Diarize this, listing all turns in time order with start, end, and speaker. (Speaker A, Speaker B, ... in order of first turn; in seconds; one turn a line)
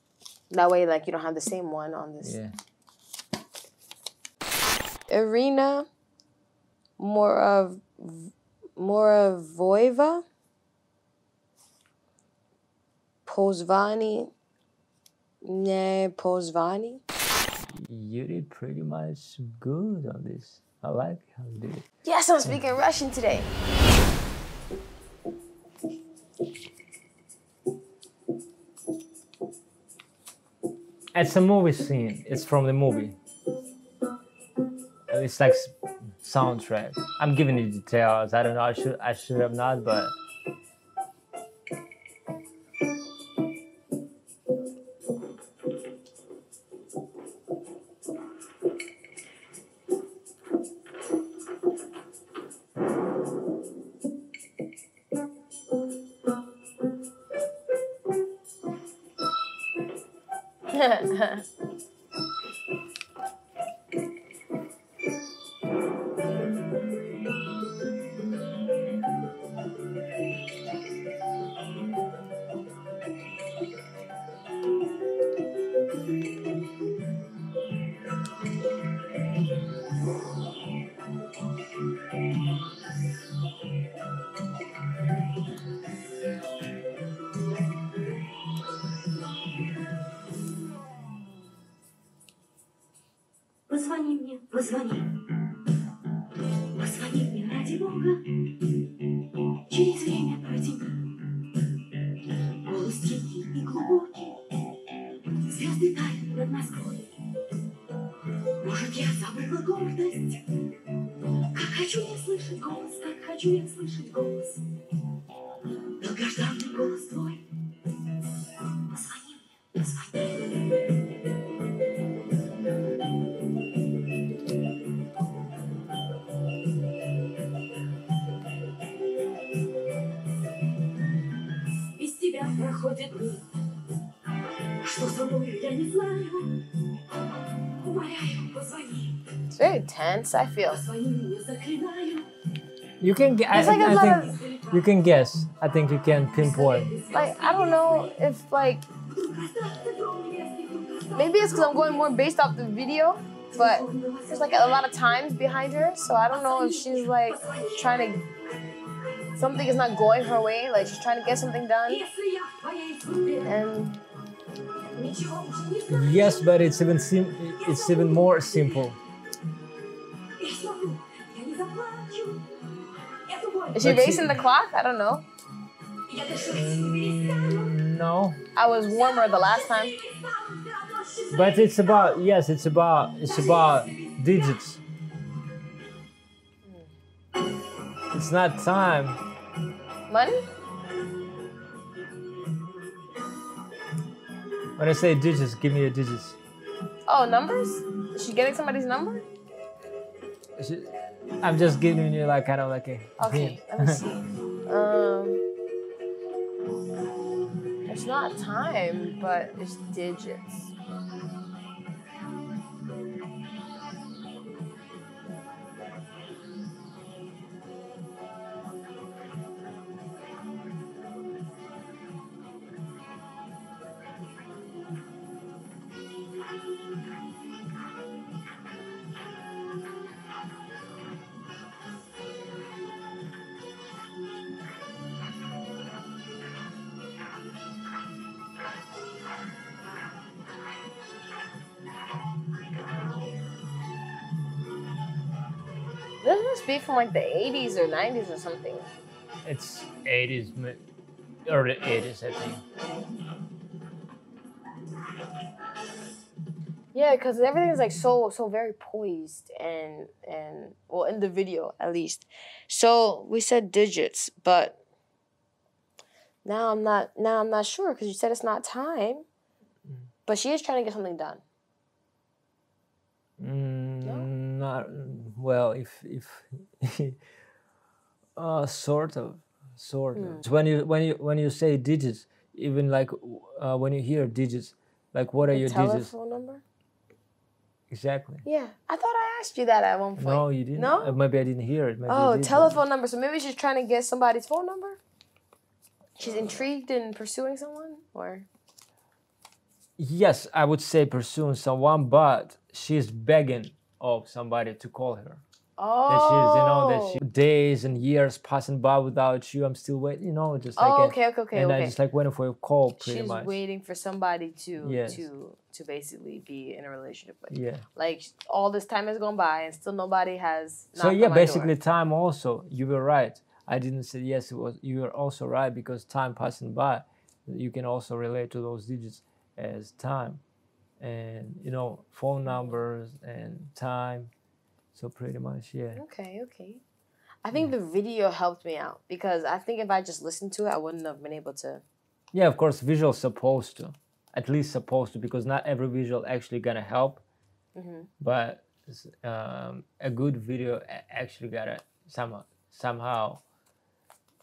Speaker A: 0.5-2.4
Speaker B: 2.2-2.5
Speaker A: 5.1-5.9
Speaker A: 7.0-10.2
Speaker A: 13.2-14.3
Speaker A: 15.4-17.0
Speaker B: 17.6-21.8
Speaker A: 22.0-23.5
Speaker B: 31.1-33.2
Speaker B: 35.1-40.1
Speaker A: 60.7-61.4
Speaker C: 93.7-95.2
Speaker C: 96.7-98.4
Speaker C: 99.7-101.1
Speaker C: 102.6-104.4
Speaker C: 105.5-107.2
Speaker C: 108.6-110.4
Speaker C: 111.5-114.6
Speaker C: 116.0-117.4
Speaker C: 118.9-120.3
Speaker C: 131.9-133.5
Speaker C: 134.8-136.7
Speaker C: 137.7-139.2
Speaker A: 139.5-140.8
Speaker C: 140.7-142.3
Speaker B: 143.0-146.9
Speaker A: 143.5-144.4
Speaker C: 143.7-144.7
Speaker C: 146.4-148.1
Speaker A: 147.1-148.8
Speaker C: 149.1-152.0
Speaker A: 151.1-158.2
Speaker C: 153.5-154.8
Speaker C: 156.3-158.1
Speaker A: 159.3-162.1
Speaker C: 161.9-163.5
Speaker A: 163.4-164.0
Speaker C: 164.9-166.4
Speaker B: 165.9-169.0
Speaker C: 167.8-168.3
Speaker C: 170.4-172.5
Speaker C: 173.3-173.8
Speaker A: 173.7-175.2
Speaker B: 173.8-174.4
Speaker C: 176.1-177.7
Speaker B: 176.4-178.4
Speaker A: 178.5-180.0
Speaker C: 179.1-181.8
Speaker B: 181.3-184.8
Speaker C: 183.3-184.1
Speaker B: 188.1-189.2
Speaker A: 190.1-190.4
Speaker B: 194.8-196.4
Speaker A: 197.1-199.2
Speaker B: 200.6-204.0
Speaker A: 203.2-205.4
Speaker A: 207.9-210.7
Speaker A: 246.2-248.9
Speaker B: 249.4-250.8
Speaker B: 251.4-252.6
Speaker A: 256.9-264.8
Speaker A: 266.4-269.2
Speaker A: 270.2-271.4
Speaker B: 273.4-277.2
Speaker A: 274.0-274.3
Speaker B: 278.4-286.1
Speaker A: 280.1-280.4
Speaker A: 285.5-286.6
Speaker B: 287.9-288.4
Speaker A: 288.4-291.2
Speaker B: 290.2-292.8
Speaker A: 292.1-295.0
Speaker A: 296.2-298.5
Speaker B: 296.2-296.6
Speaker B: 300.0-305.4
Speaker A: 305.8-307.2
Speaker B: 306.1-313.5
Speaker A: 310.8-312.0
Speaker A: 313.0-321.7
Speaker B: 314.8-315.2
Speaker B: 317.5-317.8
Speaker B: 320.9-330.4
Speaker B: 331.0-334.3
Speaker A: 332.4-332.8
Speaker B: 334.9-336.0
Speaker A: 335.9-336.8
Speaker A: 337.4-341.8
Speaker B: 342.3-347.2
Speaker A: 347.7-348.1
Speaker B: 348.2-353.4